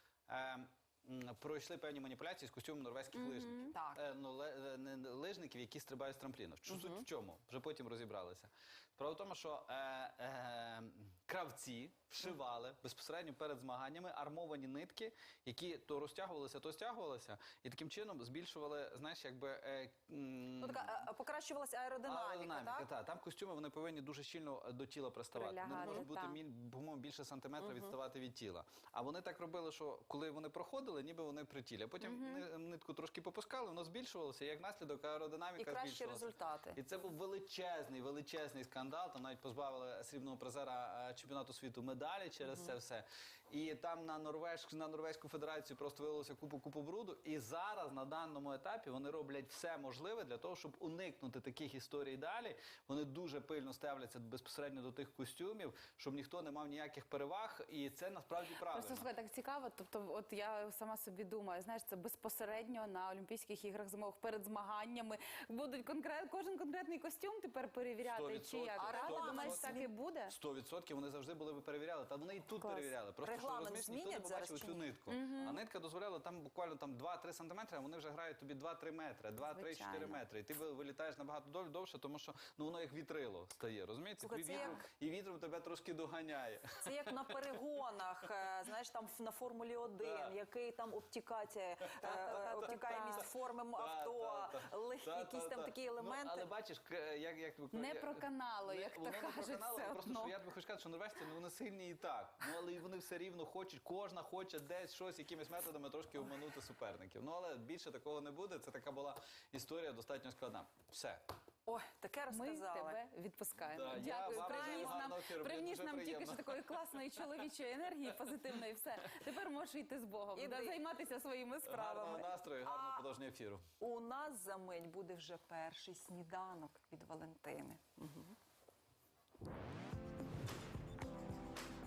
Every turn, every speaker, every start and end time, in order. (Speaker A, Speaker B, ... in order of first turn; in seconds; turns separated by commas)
Speaker A: 0.3-21.0, Speaker B: 3.1-3.7, Speaker C: 3.7-4.0, Speaker C: 6.7-7.0, Speaker C: 20.6-22.9, Speaker A: 22.0-59.1, Speaker B: 25.3-26.4, Speaker C: 25.7-26.0, Speaker C: 27.6-27.9, Speaker B: 32.0-32.4, Speaker C: 35.6-36.8, Speaker B: 58.7-70.3, Speaker A: 68.0-87.5, Speaker C: 68.8-69.9, Speaker B: 72.6-72.9, Speaker C: 73.2-75.0, Speaker B: 75.1-75.6, Speaker B: 79.4-80.2, Speaker C: 84.2-84.8, Speaker C: 86.8-96.5, Speaker A: 90.0-90.3, Speaker A: 92.0-111.2, Speaker B: 92.0-93.2, Speaker B: 97.7-100.3, Speaker C: 111.7-113.0, Speaker B: 112.3-122.3, Speaker A: 113.7-116.8, Speaker C: 114.1-115.0, Speaker C: 120.3-120.8, Speaker A: 121.6-123.6, Speaker C: 122.6-123.1, Speaker C: 123.8-128.3